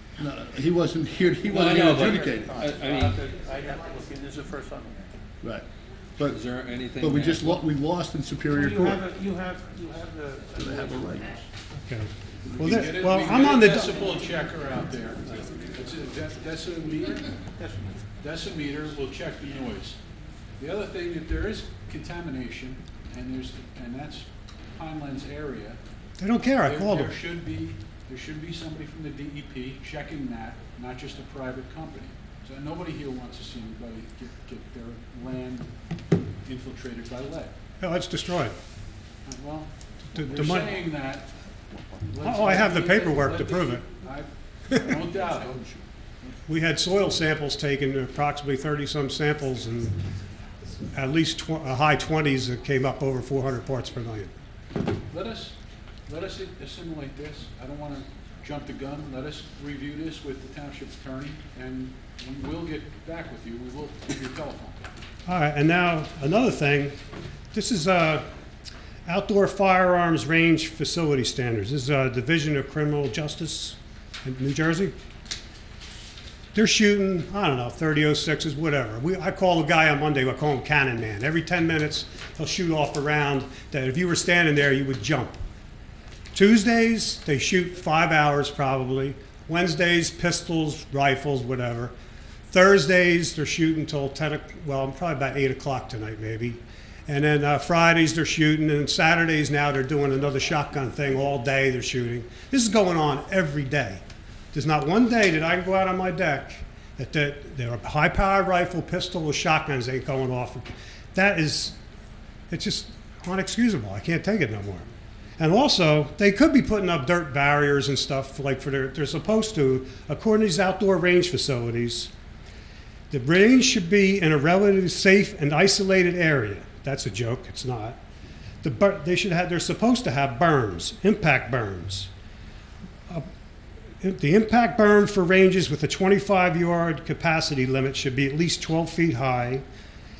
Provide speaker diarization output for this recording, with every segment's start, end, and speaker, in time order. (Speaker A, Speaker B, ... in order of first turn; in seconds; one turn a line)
Speaker A: 0.2-2.6
Speaker B: 1.5-3.2
Speaker C: 1.8-5.1
Speaker B: 6.3-7.6
Speaker A: 7.0-9.1
Speaker C: 8.7-10.9
Speaker A: 10.5-11.4
Speaker D: 11.8-14.0
Speaker E: 12.5-17.4
Speaker E: 18.2-20.0
Speaker E: 20.6-25.8
Speaker D: 26.2-27.1
Speaker E: 26.4-35.7
Speaker E: 36.4-37.5
Speaker D: 37.8-38.5
Speaker E: 39.2-41.3
Speaker D: 40.1-40.7
Speaker E: 42.1-45.6
Speaker D: 42.2-43.9
Speaker A: 45.3-45.8
Speaker D: 46.5-50.0
Speaker D: 50.9-54.3
Speaker E: 55.1-64.8
Speaker D: 65.3-67.0
Speaker D: 67.5-68.2
Speaker D: 69.1-74.9
Speaker D: 76.5-85.4
Speaker D: 86.3-91.9
Speaker D: 92.5-104.0
Speaker D: 104.5-111.8
Speaker D: 112.5-114.8
Speaker D: 115.4-122.1
Speaker D: 123.1-128.0
Speaker D: 128.6-132.1
Speaker D: 134.0-139.6